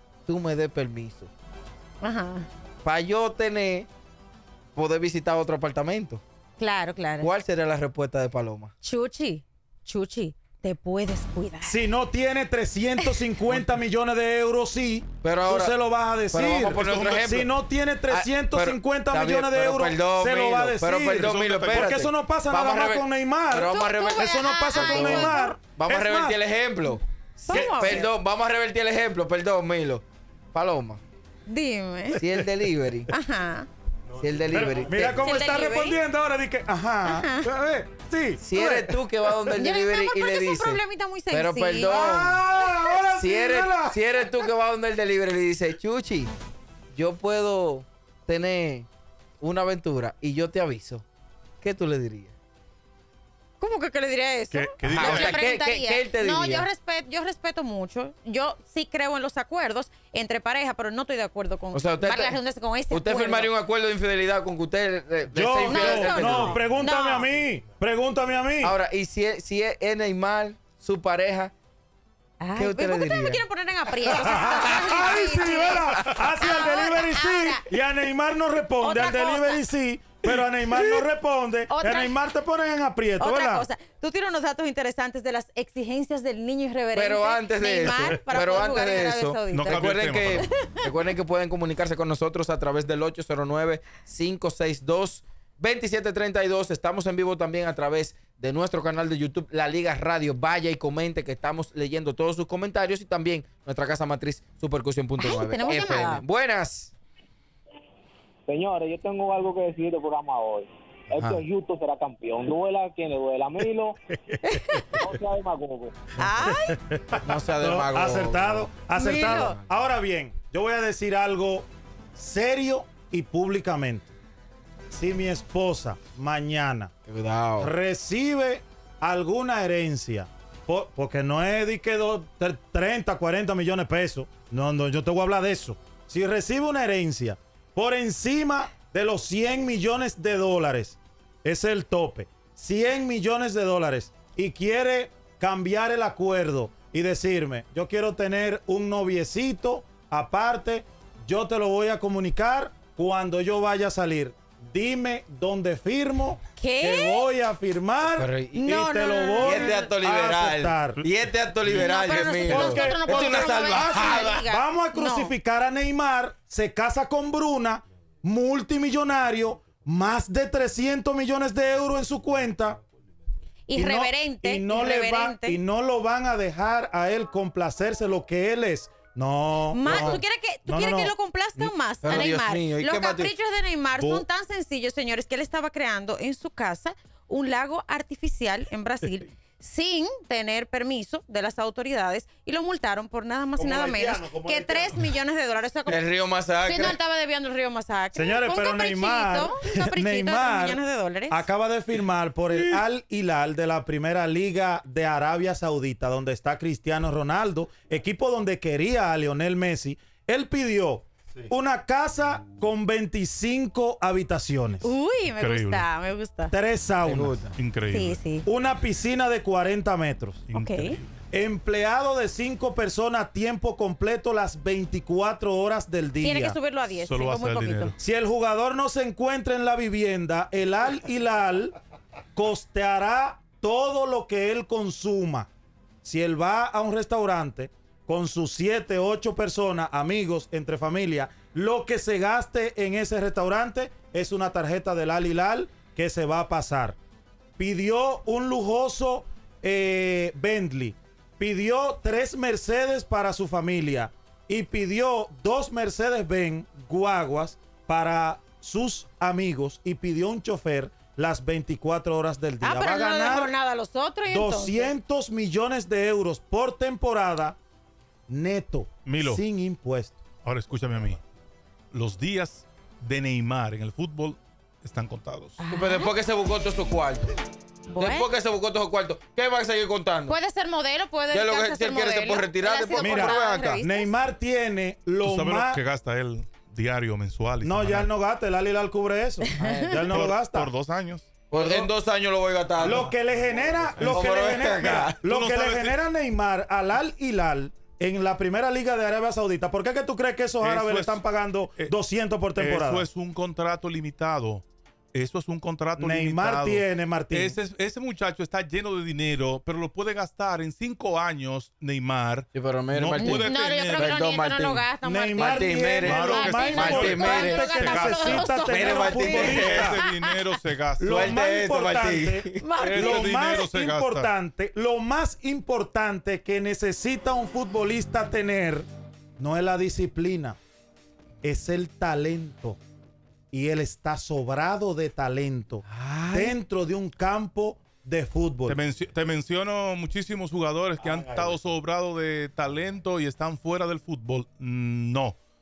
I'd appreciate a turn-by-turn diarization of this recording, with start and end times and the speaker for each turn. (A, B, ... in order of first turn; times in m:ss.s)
0:00.3-0:01.3 A
0:02.0-0:02.5 B
0:02.8-0:03.9 A
0:04.8-0:06.2 A
0:06.6-0:07.3 B
0:07.2-0:08.7 A
0:08.8-0:11.8 B
0:11.6-0:26.4 C
0:15.2-0:15.8 A
0:16.3-0:17.5 A
0:16.8-0:17.2 D
0:18.1-0:31.0 A
0:21.2-0:21.9 D
0:23.6-0:25.6 B
0:27.5-0:28.1 B
0:27.5-0:28.1 C
0:31.5-0:32.2 B
0:32.2-0:33.1 A
0:33.1-0:33.7 B
0:34.2-0:35.3 A
0:34.5-0:39.4 C
0:35.2-0:36.0 B
0:37.0-0:37.5 B
0:38.4-0:42.5 A
0:39.6-0:42.4 B
0:41.8-0:44.0 C
0:43.1-0:46.3 A
0:46.9-0:48.9 A
0:49.4-0:51.0 A
0:51.6-0:52.3 A
0:53.6-1:03.5 B
0:54.5-0:55.5 D
0:54.8-0:56.7 A
1:01.7-1:06.6 A
1:05.3-1:08.8 C
1:05.6-1:07.3 B
1:08.6-1:11.5 A
1:12.4-1:17.7 B
1:12.6-1:13.4 A
1:14.1-1:23.7 C
1:18.8-1:19.7 B
1:21.7-1:22.2 B
1:23.2-1:30.9 B
1:26.9-1:46.9 A
1:29.5-1:30.5 D
1:45.2-1:46.2 B
1:48.5-1:54.0 E
1:54.4-1:55.0 B
1:55.0-1:56.0 E
1:56.2-1:56.8 B
1:56.4-2:04.1 C
1:57.2-1:58.7 A
1:58.9-1:59.6 B
1:59.2-1:59.6 A
2:04.9-2:06.9 C
2:07.1-2:07.7 A
2:07.6-2:41.0 C
2:36.6-2:37.3 B
2:38.1-2:38.8 A
2:38.5-2:39.9 B
2:39.4-2:44.4 A
2:41.7-2:45.3 B
2:42.4-2:52.8 C
2:53.7-2:55.6 B
2:53.7-3:01.2 C
2:59.7-3:16.0 B
2:59.8-3:00.2 A
3:01.6-3:03.3 A
3:04.0-3:04.3 C
3:13.6-3:15.0 C
3:15.9-3:17.0 A
3:16.6-3:21.5 B
3:18.1-3:34.9 C
3:34.8-3:36.5 B
3:35.4-3:35.9 D
3:36.5-3:37.5 C
3:37.0-3:37.5 A
3:37.6-3:38.2 D
3:37.9-3:38.5 B
3:38.4-3:40.4 C
3:40.5-3:41.1 D
3:40.5-3:41.0 B
3:41.3-3:46.6 C
3:46.2-3:48.0 B
3:46.9-3:48.0 D
3:48.0-3:51.8 C
3:52.4-3:55.5 C
3:56.0-4:07.0 C
4:07.6-4:23.6 C
4:22.6-4:24.9 B
4:24.3-4:27.6 C
4:28.3-4:30.2 C
4:29.0-4:29.4 D
4:30.4-4:31.2 D
4:31.9-4:35.6 D
4:35.6-4:36.1 B
4:35.7-4:37.3 A
4:37.9-4:38.3 B
4:38.0-4:40.4 A
4:40.3-4:44.2 B
4:41.3-4:43.8 A
4:43.0-4:45.8 C
4:45.2-4:48.1 D
4:47.6-4:50.7 C
4:49.4-4:50.0 B
4:49.6-4:50.1 A
4:50.1-4:51.3 D
4:51.5-4:53.1 A
4:51.5-4:51.9 C
4:52.8-5:03.1 C
4:54.0-4:54.3 D
4:54.1-4:55.2 A
4:55.2-4:56.0 D
5:00.6-5:01.2 D
5:02.6-5:14.2 D
5:06.0-5:07.6 C
5:12.5-5:16.2 A
5:13.2-5:20.4 B
5:15.0-5:20.0 C
5:16.0-5:21.4 D
5:16.7-5:17.8 A
5:18.7-5:19.9 A
5:21.0-5:28.9 C
5:21.1-5:22.6 A
5:22.6-5:23.5 B
5:22.8-5:24.3 D
5:29.4-5:30.6 C
5:31.4-5:32.8 C
5:33.5-5:38.8 C
5:35.9-5:36.6 A
5:38.7-5:45.4 D